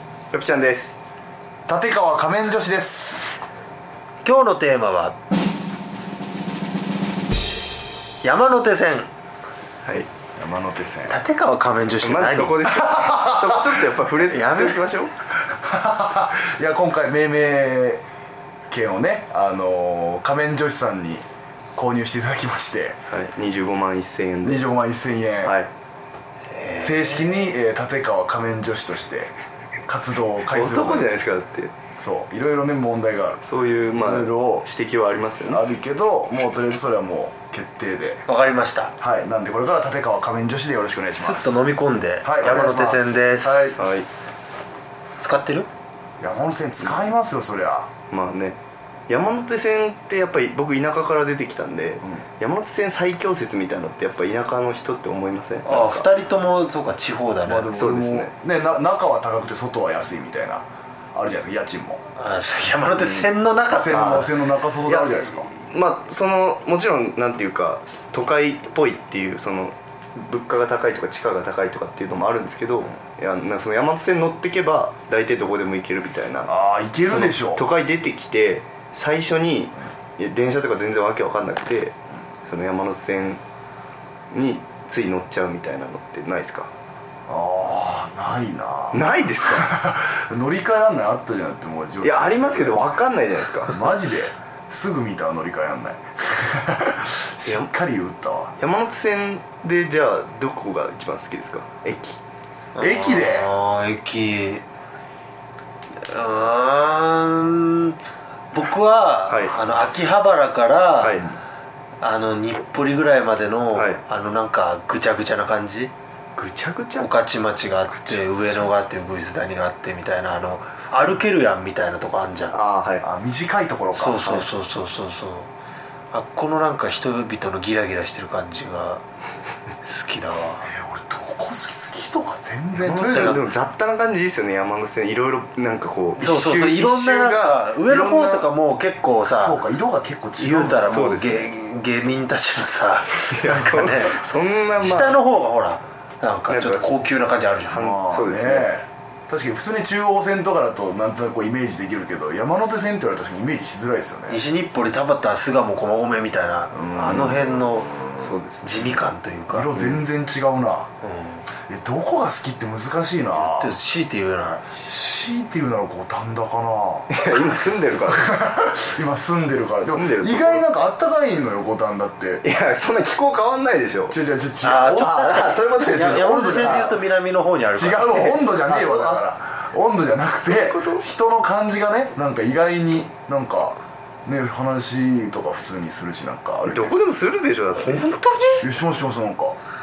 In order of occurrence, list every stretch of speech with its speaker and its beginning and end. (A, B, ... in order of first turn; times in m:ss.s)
0:00.3-0:01.0 A
0:01.7-0:03.4 B
0:04.2-0:05.2 C
0:08.2-0:09.1 C
0:10.4-0:11.2 B
0:11.1-0:12.6 C
0:12.0-0:15.1 A
0:12.7-0:13.7 B
0:14.3-0:14.8 C
0:15.5-0:18.0 B
0:18.7-0:21.2 B
0:21.8-0:23.0 B
0:23.1-0:24.6 A
0:24.4-0:25.6 B
0:25.4-0:25.7 A
0:26.5-0:27.2 C
0:26.8-0:29.3 B
0:29.9-0:31.2 B
0:30.5-0:31.7 A
0:32.0-0:33.4 B
0:33.4-0:35.6 A
0:34.0-0:34.7 B
0:35.4-0:38.2 B
0:38.3-0:38.9 C
0:39.0-0:41.6 B
0:41.2-0:43.8 C
0:42.2-0:43.8 B
0:43.8-0:44.1 A
0:45.2-0:45.7 C
0:46.2-0:47.9 B
0:48.1-0:48.6 A
0:49.1-0:56.1 A
0:55.6-0:57.7 C
0:57.4-1:02.0 B
0:57.7-0:58.3 A
1:02.1-1:04.3 C
1:02.9-1:03.3 A
1:03.7-1:05.5 B
1:03.9-1:04.3 A
1:04.8-1:16.5 A
1:16.4-1:17.6 B
1:17.1-1:23.4 A
1:24.3-1:26.7 A
1:27.3-1:32.8 B
1:28.9-1:29.7 A
1:32.0-1:33.8 A
1:33.7-1:38.5 B
1:38.6-1:42.2 A
1:42.8-1:44.6 C
1:42.8-1:43.5 B
1:46.0-1:48.0 C
1:48.5-1:51.2 C
1:49.3-1:49.6 A
1:51.0-1:51.4 A
1:52.0-1:55.9 C
1:53.7-1:54.0 A
1:56.4-1:57.3 A
1:57.0-2:02.6 C
1:57.9-1:58.5 A
2:02.5-2:03.0 A
2:03.0-2:04.4 B
2:03.9-2:05.5 C
2:06.1-2:09.0 C
2:09.8-2:10.7 C
2:10.7-2:13.4 B
2:12.7-2:18.5 A
2:13.1-2:13.4 C
2:16.2-2:19.6 C
2:19.3-2:21.0 B
2:20.4-2:24.2 C
2:20.8-2:21.5 A
2:23.0-2:25.2 A
2:24.8-2:27.9 C
2:26.5-2:28.7 A
2:27.7-2:34.4 B
2:34.3-2:38.0 C
2:36.7-2:38.3 B
2:38.2-2:39.0 A
2:38.6-2:40.0 C
2:39.5-2:40.9 B
2:41.0-2:41.4 C
2:41.7-2:43.8 B
2:43.3-2:44.8 C
2:44.8-2:47.1 B
2:47.1-2:48.2 A
2:48.1-2:52.4 B
2:49.8-2:50.6 A
2:52.4-2:54.2 A
2:54.1-2:57.0 B
2:54.6-2:58.4 C
2:54.7-2:57.0 A
2:57.7-3:07.0 B
2:58.6-2:59.3 A
3:00.4-3:01.1 A
3:06.6-3:08.2 A
3:07.7-3:08.7 C
3:08.6-3:09.6 B